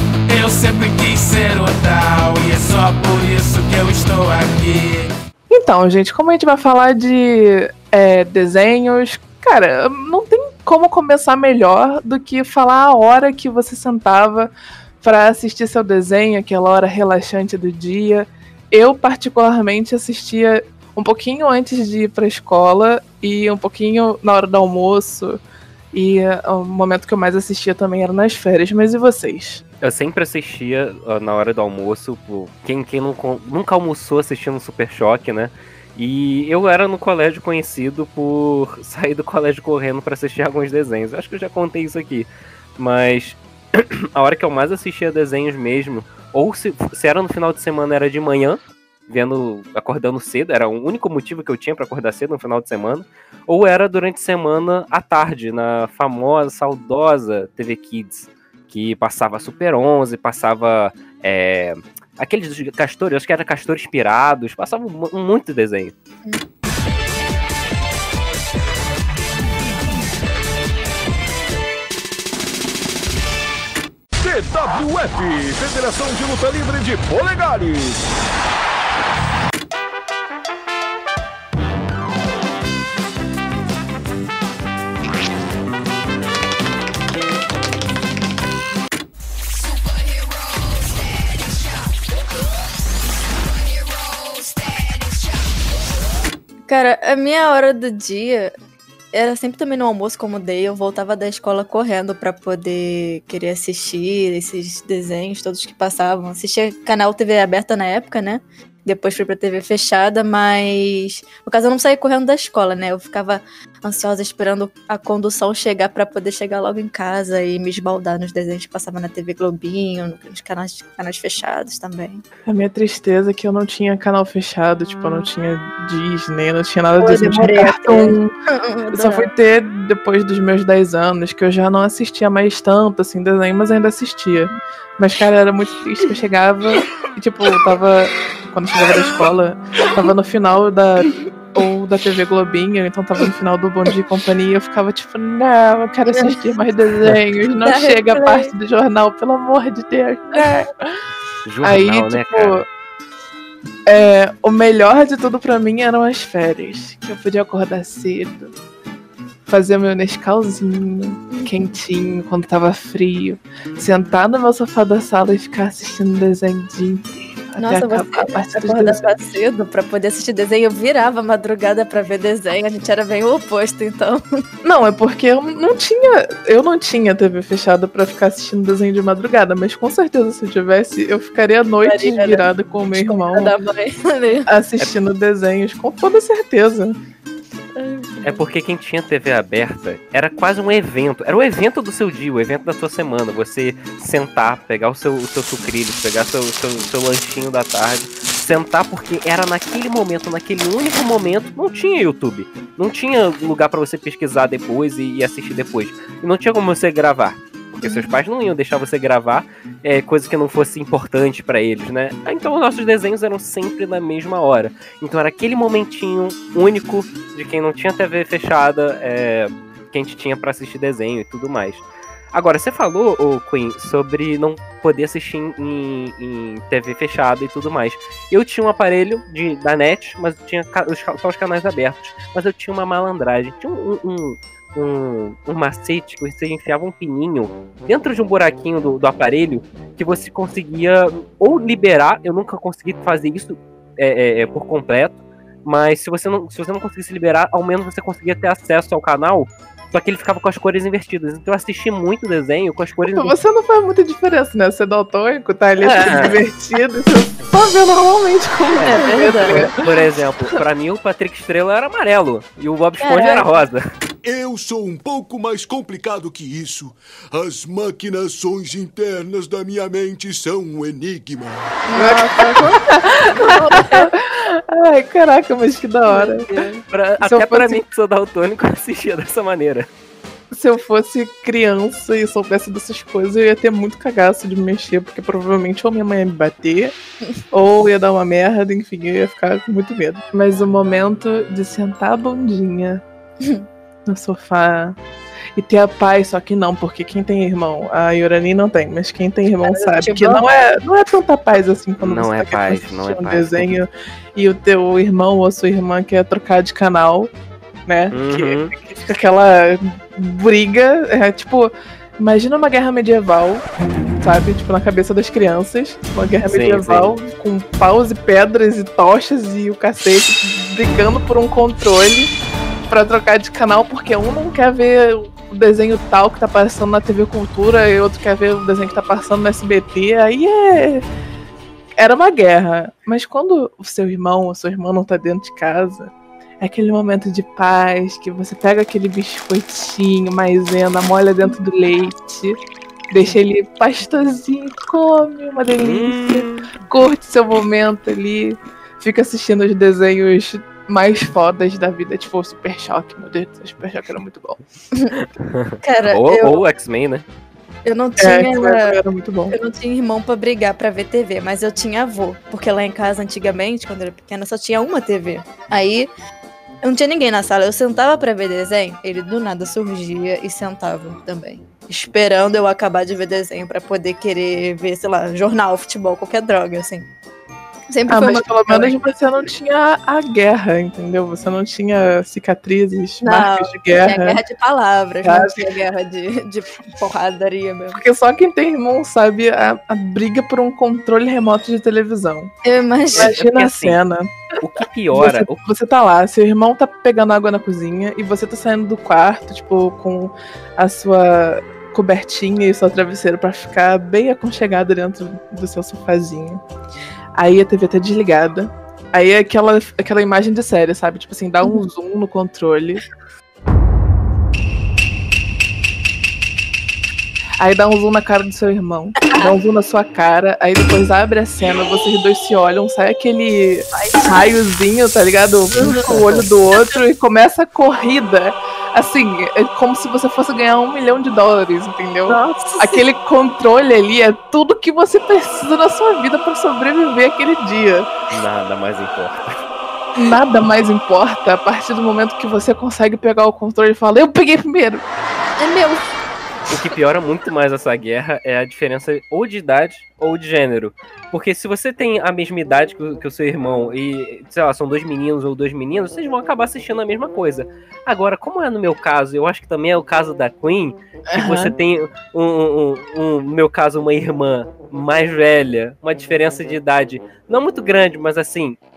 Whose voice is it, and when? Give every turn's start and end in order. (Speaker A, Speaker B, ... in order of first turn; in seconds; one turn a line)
Speaker A: 0.3-5.1
Speaker B: 5.5-25.4
Speaker B: 25.9-29.6
Speaker C: 29.8-65.9
Speaker D: 74.2-78.0
Speaker E: 96.7-98.5
Speaker E: 99.1-122.2
Speaker B: 122.5-128.3
Speaker E: 127.0-129.3
Speaker B: 128.9-150.9
Speaker E: 147.6-148.5
Speaker C: 151.4-152.6
Speaker B: 151.6-152.7
Speaker B: 153.9-158.5
Speaker B: 159.5-169.1
Speaker E: 167.6-174.4
Speaker B: 174.6-183.5
Speaker E: 181.8-184.5
Speaker B: 184.5-187.0
Speaker E: 187.8-188.4
Speaker C: 188.2-253.3
Speaker B: 253.1-259.8
Speaker C: 255.8-256.4
Speaker C: 258.8-263.9
Speaker E: 258.9-259.6
Speaker E: 263.0-263.5
Speaker F: 264.2-271.8
Speaker E: 271.9-274.1
Speaker B: 271.9-276.5
Speaker E: 276.1-276.8
Speaker C: 276.9-279.9
Speaker B: 277.2-277.8
Speaker B: 280.5-286.9
Speaker B: 287.5-293.0
Speaker E: 293.4-293.7
Speaker B: 294.1-295.0
Speaker B: 295.6-307.3
Speaker E: 299.6-300.5
Speaker C: 302.0-303.7
Speaker B: 307.9-313.6
Speaker C: 308.1-308.7
Speaker B: 314.2-322.3
Speaker C: 316.5-317.1
Speaker B: 322.9-331.1
Speaker B: 332.0-342.6
Speaker B: 343.1-354.6
Speaker C: 345.8-346.7
Speaker C: 355.2-357.2
Speaker E: 355.8-356.6
Speaker E: 357.9-359.0
Speaker B: 358.2-359.6
Speaker E: 359.5-366.1
Speaker E: 366.8-377.1
Speaker E: 377.9-379.0
Speaker B: 378.1-384.4
Speaker E: 383.2-388.0
Speaker B: 385.2-385.6
Speaker B: 387.9-392.5
Speaker E: 392.6-393.3
Speaker C: 393.1-394.0
Speaker B: 393.2-394.4
Speaker C: 394.6-395.6
Speaker B: 395.1-406.6
Speaker B: 407.4-413.0
Speaker B: 417.6-438.1
Speaker E: 419.2-419.5
Speaker E: 423.9-424.4
Speaker E: 425.7-426.5
Speaker E: 432.3-433.0
Speaker C: 438.3-439.4
Speaker B: 440.2-445.0
Speaker E: 445.6-446.0
Speaker C: 446.7-468.8
Speaker B: 461.3-461.7